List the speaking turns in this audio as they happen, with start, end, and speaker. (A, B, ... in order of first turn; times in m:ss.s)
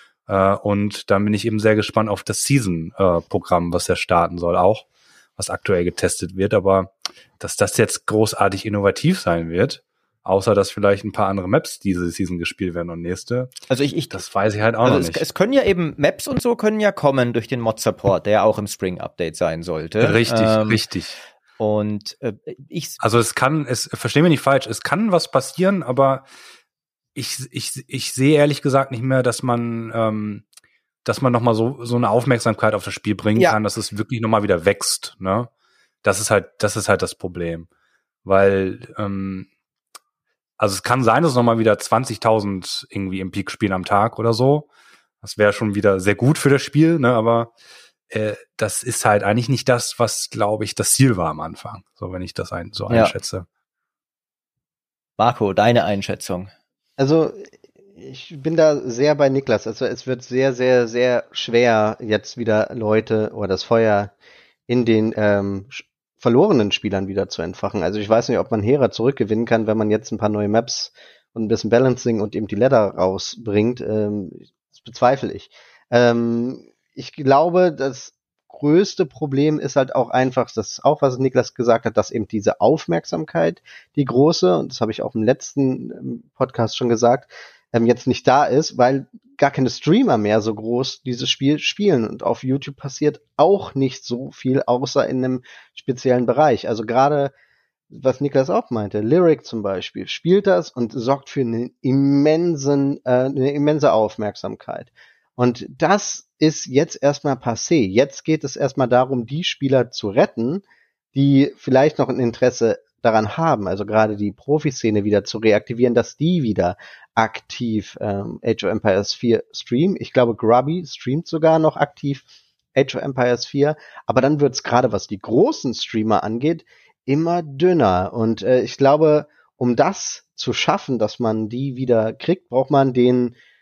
0:00.3-0:13.5 A
0:13.7-0:14.2 B
0:14.1-0:15.2 A
0:14.8-0:20.8 B
0:20.0-0:21.2 A
0:21.6-0:23.0 B
0:23.0-0:26.3 A
0:27.2-0:30.4 A
0:31.0-0:35.5 A
0:36.0-0:37.7 A
0:38.2-0:39.5 A
0:40.6-0:44.7 A
0:45.2-0:47.5 A
0:48.1-0:53.5 A
0:55.2-0:56.5 B
0:57.0-1:04.1 C
1:04.7-1:37.3 C
1:37.9-1:50.6 C
1:51.1-2:13.4 C